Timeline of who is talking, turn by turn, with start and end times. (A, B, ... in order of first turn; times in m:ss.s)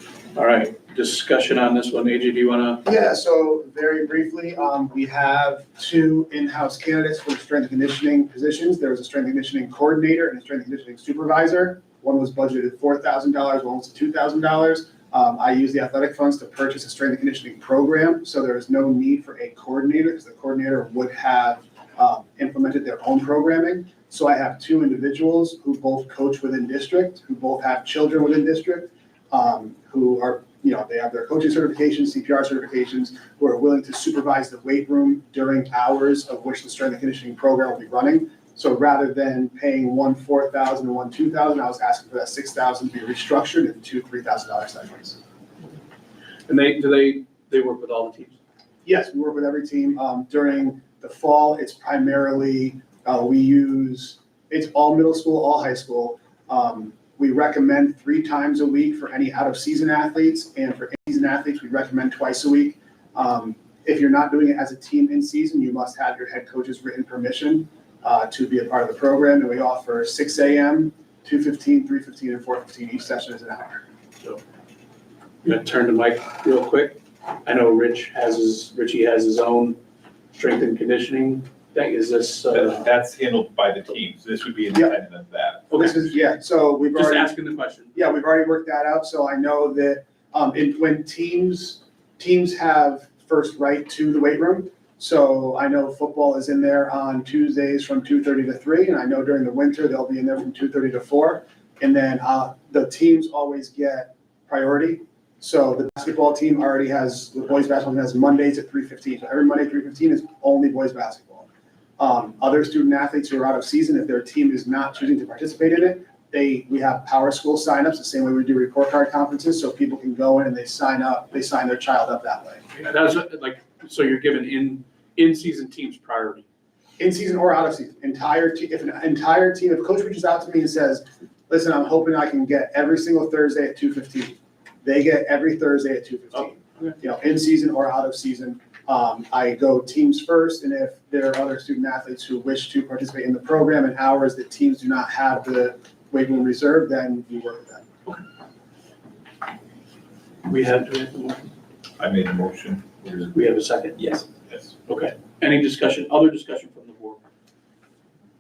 0:00.4-0:02.8 A
0:02.8-0:45.2 B
0:46.5-0:48.4 A
0:48.8-1:13.8 B
1:15.4-1:19.8 A
1:20.3-1:22.9 A
1:22.5-1:25.8 C
1:24.7-1:25.0 B
1:25.7-1:27.4 B
1:25.8-1:26.0 A
1:26.9-1:27.9 A
1:27.9-1:51.5 B
1:52.0-2:02.7 B
2:02.8-2:06.4 A
2:07.0-2:27.8 B
2:16.3-2:16.9 A
2:30.5-2:31.5 A
2:32.0-2:33.3 C
2:33.3-2:34.0 A
2:34.9-2:37.2 A